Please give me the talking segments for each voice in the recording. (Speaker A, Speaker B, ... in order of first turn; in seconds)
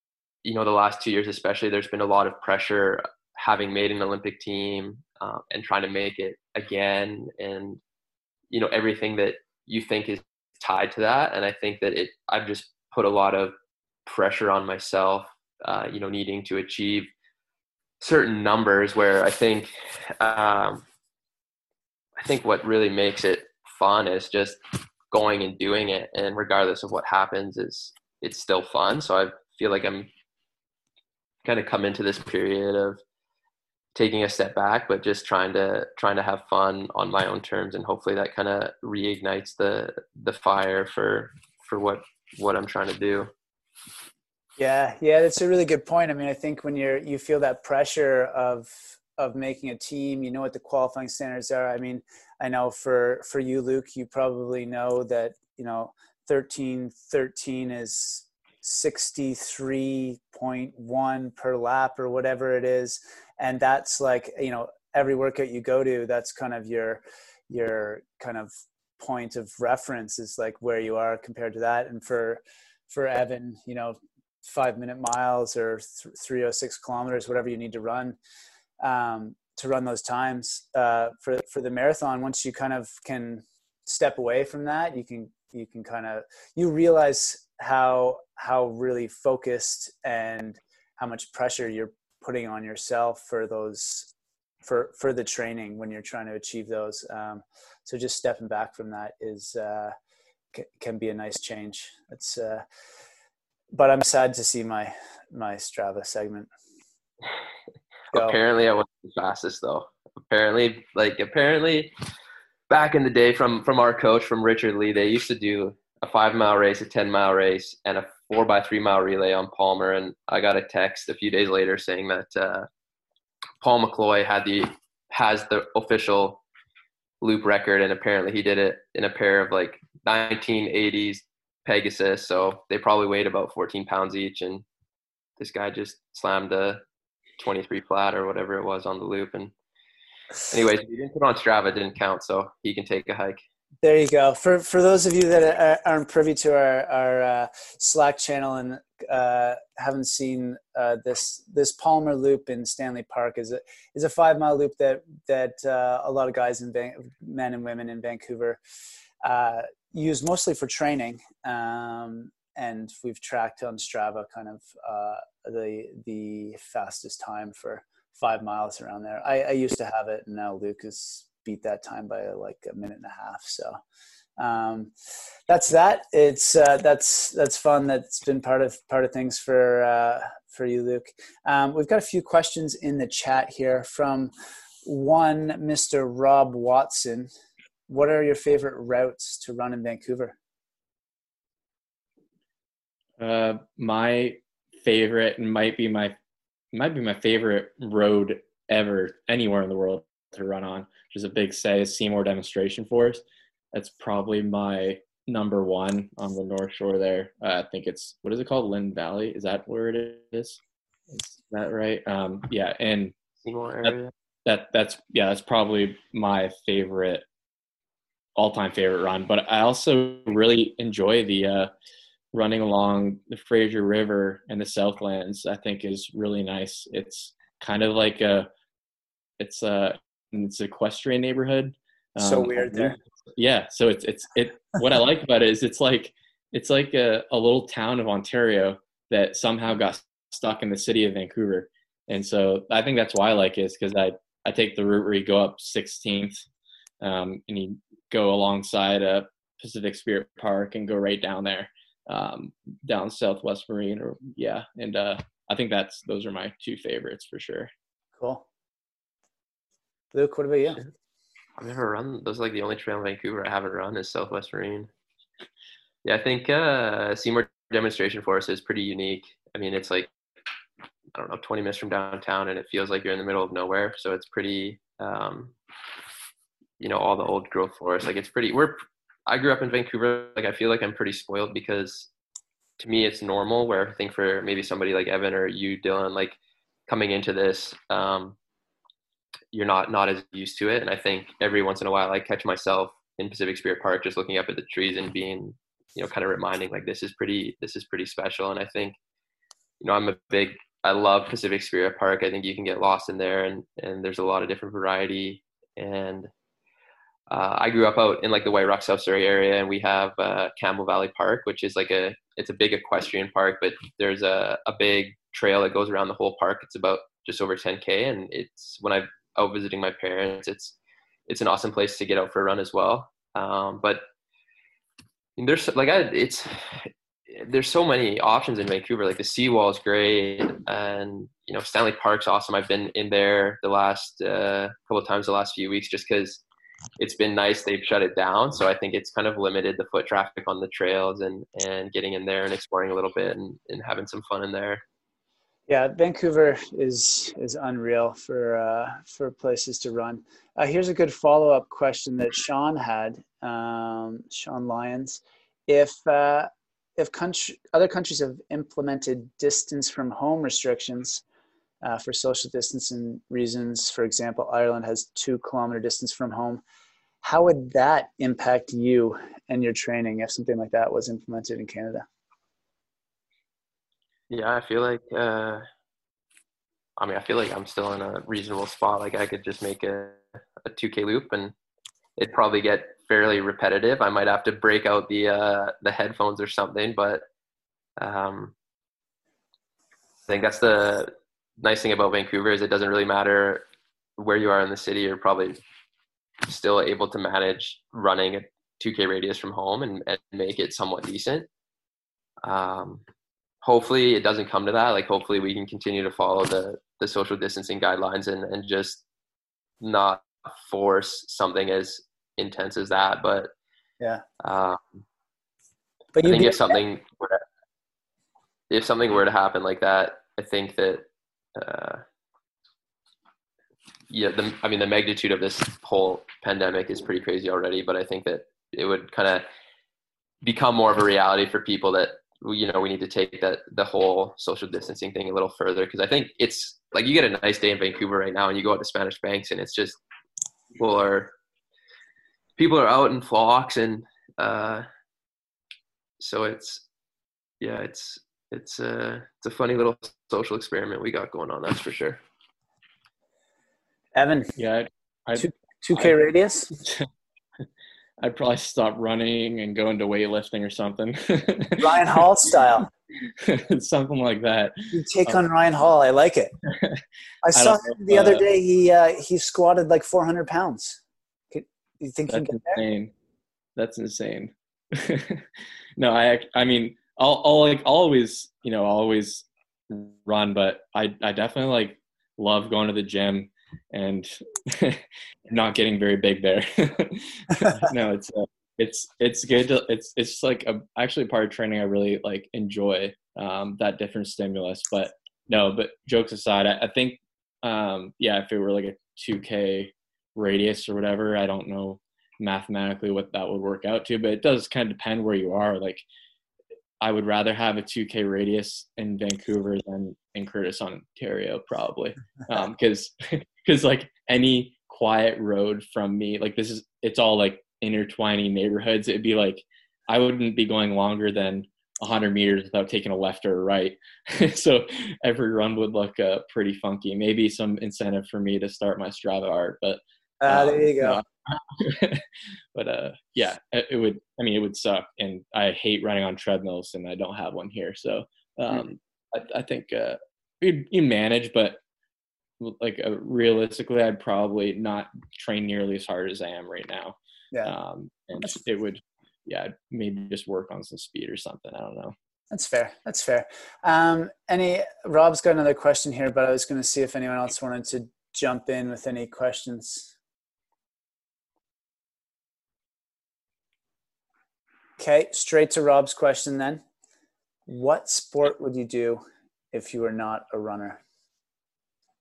Speaker A: 0.4-7.8, 8.5-17.1, 18.0-20.8, 22.2-30.1, 31.4-33.0, 33.9-43.3, 108.1-111.9, 112.7-122.7, 123.6-126.4, 127.2-134.6, 135.4-136.8, 137.4-139.5, 140.5-143.4, 213.4-214.1, 261.6-264.9, 266.0-270.1, 271.1-275.5, 276.8-282.1, 282.8-288.4, 289.5-299.0, 299.8-306.3, 307.3-320.7, 321.3-324.0, 325.4-336.4, 337.0-344.8, 374.3-375.6, 377.0-381.5, 382.2-387.2, 388.0-388.5, 390.3-393.6, 394.2-395.6, 396.5-401.5, 402.4-403.0, 403.6-409.0, 409.8-413.5, 414.4-415.0, 416.2-417.4, 418.7-422.0, 424.1-429.4, 430.4-440.0, 440.7-441.3, 442.6-444.9, 446.2-446.8, 447.6-452.2
Speaker B: 44.6-78.2, 78.8-94.1, 94.6-99.9, 100.5-102.6, 103.7-106.5, 108.1-108.4, 143.8-158.6, 159.2-173.8, 174.4-174.9, 175.5-184.3, 184.8-187.3, 187.9-190.4, 232.2-233.0, 258.2-258.4, 260.1-260.8, 345.7-361.2, 361.8-366.6, 367.2-372.1, 416.1-416.8, 454.1-454.5, 455.4-456.8, 461.8-462.9, 464.9-466.5, 467.4-471.0, 471.5-472.8, 530.4-531.2, 552.5-560.1, 565.0-566.8, 567.7-571.0
Speaker C: 193.2-196.1, 196.7-213.1, 213.8-217.2, 218.3-221.7, 222.3-228.5, 229.4-246.4, 247.0-257.7, 454.6-456.1, 456.8-457.1, 458.2-462.2, 463.4-465.4, 466.7-467.0, 467.5-468.4, 472.3-473.1, 473.8-506.0, 507.0-541.8, 542.6-552.1